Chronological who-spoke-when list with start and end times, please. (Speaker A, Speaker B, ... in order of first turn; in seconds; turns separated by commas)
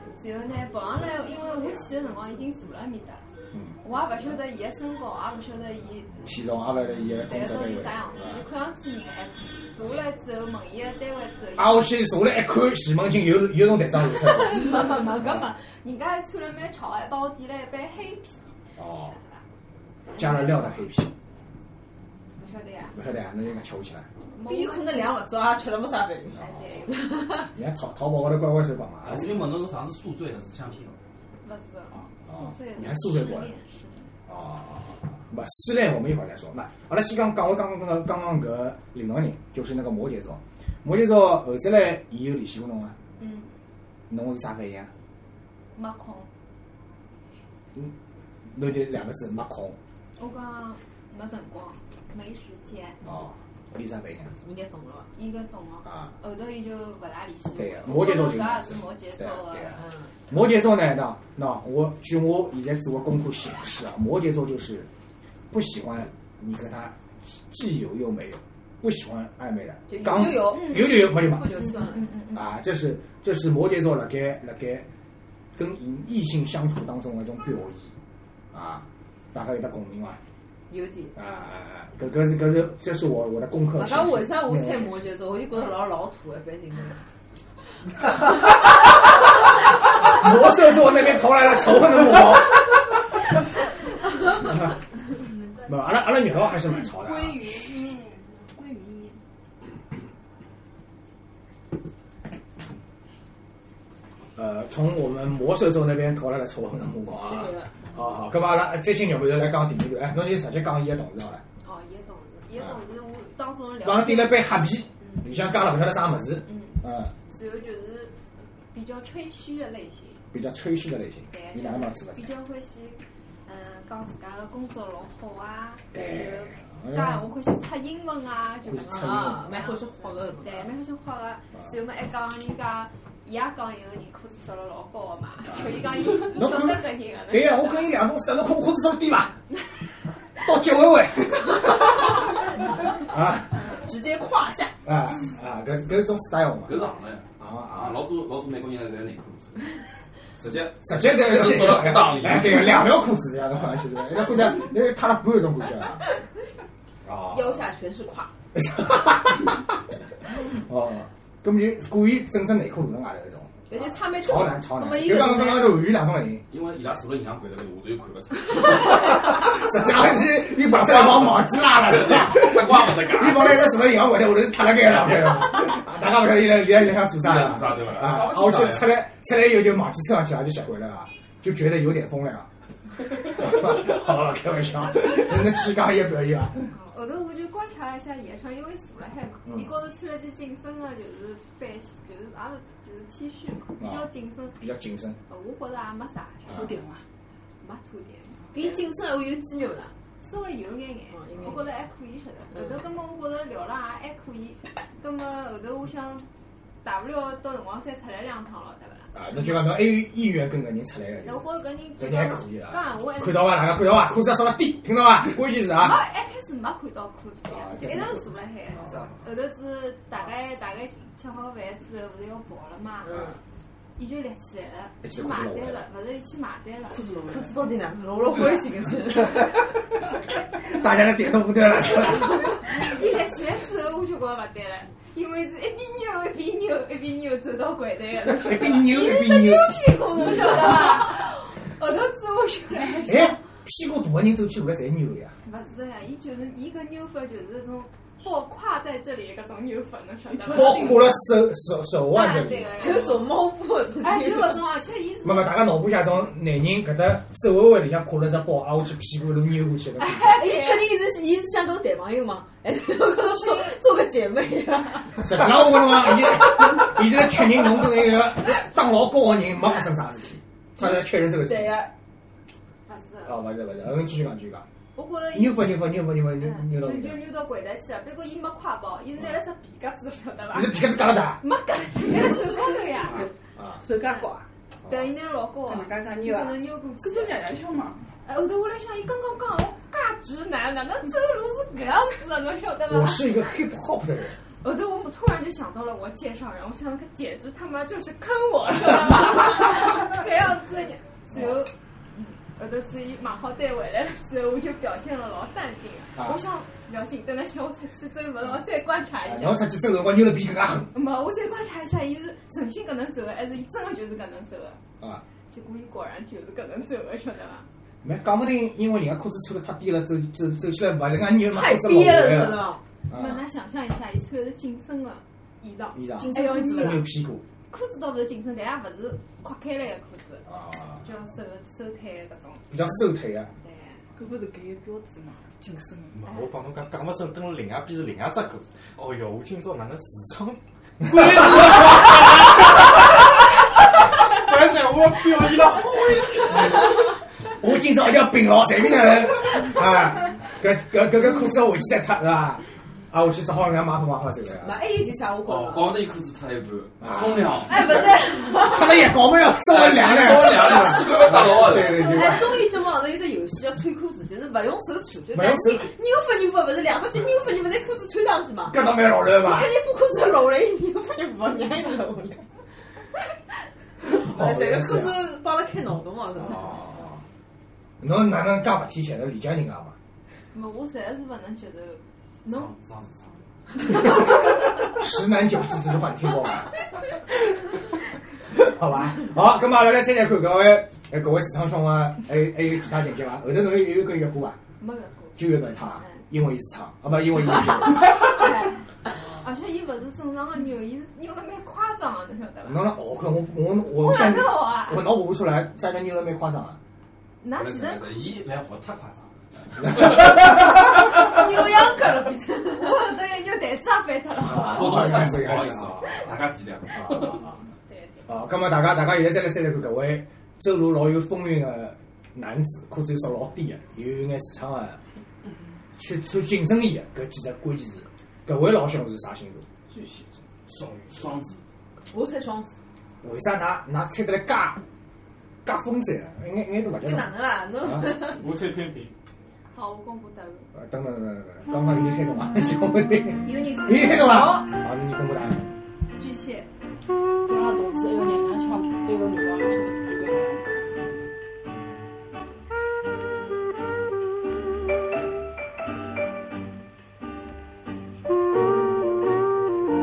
Speaker A: 0.1-3.2, Speaker A: 3.8-6.3, Speaker B: 6.2-8.4, Speaker A: 7.2-11.9, Speaker B: 11.6-15.5, Speaker A: 14.1-19.4, Speaker B: 18.8-19.1, Speaker A: 20.1-20.8, Speaker B: 20.2-21.1, Speaker A: 22.4-23.0, Speaker B: 22.9-24.1, Speaker A: 24.3-25.2, Speaker C: 24.4-27.5, Speaker B: 26.3-26.8, Speaker A: 26.4-27.1, Speaker B: 27.5-29.5, Speaker D: 29.0-31.0, Speaker A: 31.4-34.1, Speaker B: 32.3-33.5, Speaker B: 34.3-43.0, Speaker A: 43.2-43.5, Speaker B: 44.1-44.9, Speaker A: 45.7-46.3, Speaker B: 48.5-49.8, Speaker A: 50.2-53.0, Speaker B: 53.0-54.3, Speaker C: 54.4-55.1, Speaker A: 55.1-59.8, Speaker B: 55.8-56.1, Speaker B: 57.5-59.7, Speaker C: 59.8-60.1, Speaker B: 60.3-64.9, Speaker B: 65.5-71.6, Speaker C: 69.9-72.1, Speaker A: 70.5-72.5, Speaker B: 72.3-74.9, Speaker B: 75.5-77.9, Speaker B: 78.5-80.2, Speaker C: 80.7-81.1, Speaker B: 81.2-85.0, Speaker C: 83.8-87.0, Speaker B: 90.0-92.8, Speaker B: 94.3-94.7, Speaker B: 95.6-97.8, Speaker A: 96.7-99.2, Speaker B: 104.3-111.4, Speaker C: 107.3-107.7, Speaker A: 111.6-115.3, Speaker B: 113.8-117.1, Speaker A: 116.4-118.2, Speaker A: 118.7-120.2, Speaker B: 120.3-122.3, Speaker A: 121.3-129.9, Speaker B: 125.9-127.2, Speaker B: 128.6-129.7, Speaker C: 128.8-130.7, Speaker A: 130.4-138.0, Speaker B: 136.2-139.3, Speaker B: 140.4-142.0, Speaker B: 143.0-143.5, Speaker C: 143.8-144.7, Speaker B: 144.8-146.8, Speaker D: 146.6-149.8, Speaker B: 147.4-148.0, Speaker D: 150.4-152.9, Speaker B: 150.8-156.0, Speaker B: 157.0-157.6, Speaker C: 157.3-158.3, Speaker B: 158.5-159.6, Speaker B: 160.4-166.4, Speaker C: 163.7-165.9, Speaker D: 166.5-169.9, Speaker B: 169.3-182.5, Speaker D: 170.5-173.7, Speaker D: 177.2-179.0, Speaker B: 183.0-186.6, Speaker A: 186.6-194.6, Speaker B: 189.4-189.7, Speaker B: 193.8-195.2, Speaker A: 195.3-196.7, Speaker E: 196.5-197.0, Speaker A: 197.6-198.8, Speaker C: 198.5-199.9, Speaker A: 200.2-206.3, Speaker C: 201.1-201.7, Speaker A: 206.8-209.8, Speaker B: 209.1-216.0, Speaker A: 211.2-213.8, Speaker A: 215.7-223.3, Speaker B: 217.5-219.2, Speaker C: 223.0-223.3, Speaker A: 223.9-227.3, Speaker B: 225.0-225.9, Speaker C: 226.9-229.7, Speaker E: 227.0-227.5, Speaker B: 230.6-232.6, Speaker A: 232.6-243.3, Speaker B: 238.2-240.8, Speaker B: 243.0-245.3, Speaker A: 245.4-251.2, Speaker E: 250.3-250.7, Speaker B: 250.4-253.0, Speaker A: 252.1-253.2, Speaker C: 252.8-254.6, Speaker A: 254.0-255.7, Speaker B: 255.2-260.3, Speaker A: 260.0-260.9, Speaker C: 260.2-265.4, Speaker A: 263.2-263.8, Speaker B: 265.2-271.8, Speaker C: 270.8-271.9, Speaker A: 272.9-273.5, Speaker B: 273.2-274.6, Speaker A: 274.9-283.3, Speaker B: 275.3-277.3, Speaker B: 280.5-281.4, Speaker B: 283.1-283.8, Speaker C: 283.8-284.4, Speaker A: 283.9-284.3, Speaker B: 284.9-285.1, Speaker A: 284.9-287.4, Speaker E: 285.7-288.0, Speaker C: 285.8-286.5, Speaker A: 288.2-293.7, Speaker B: 292.9-294.4, Speaker A: 294.6-309.7, Speaker B: 301.3-301.6, Speaker B: 309.2-310.9, Speaker A: 310.9-314.8, Speaker A: 315.5-317.6, Speaker B: 318.0-323.4, Speaker C: 321.4-322.8, Speaker A: 323.1-327.1, Speaker B: 325.9-327.4, Speaker C: 326.1-327.0, Speaker A: 327.7-332.6, Speaker B: 330.5-331.0, Speaker B: 332.7-333.5, Speaker A: 333.6-334.0, Speaker E: 334.1-336.2, Speaker F: 336.1-343.4, Speaker F: 344.1-346.8, Speaker B: 347.6-354.7, Speaker C: 354.6-356.0, Speaker D: 355.4-357.9, Speaker B: 357.0-358.0, Speaker C: 357.6-359.1, Speaker B: 358.5-362.7, Speaker D: 359.7-362.2, Speaker C: 362.0-372.4, Speaker B: 365.3-365.9, Speaker B: 368.7-369.7, Speaker B: 374.0-375.2, Speaker C: 374.1-376.8, Speaker B: 376.4-377.2, Speaker B: 378.0-379.9, Speaker A: 380.5-382.7, Speaker D: 382.4-383.5, Speaker B: 384.9-386.7, Speaker B: 388.5-394.6, Speaker A: 394.8-396.2, Speaker B: 395.4-398.5, Speaker A: 397.9-402.9, Speaker B: 402.6-406.8, Speaker A: 403.9-405.2, Speaker A: 407.4-408.1, Speaker D: 407.5-410.2, Speaker C: 411.0-413.1, Speaker A: 412.7-415.2, Speaker B: 414.4-416.3, Speaker D: 414.5-417.4, Speaker B: 416.9-417.6, Speaker A: 417.9-418.3, Speaker B: 418.3-425.0, Speaker B: 426.0-429.6, Speaker E: 429.9-430.2, Speaker D: 430.6-431.6, Speaker C: 432.1-432.8, Speaker B: 433.2-434.8, Speaker B: 435.6-438.1, Speaker C: 437.0-438.5, Speaker F: 438.3-439.1, Speaker A: 439.7-440.7, Speaker B: 440.7-445.7, Speaker A: 443.4-444.5, Speaker C: 444.1-444.7, Speaker A: 446.2-446.7, Speaker E: 447.4-451.1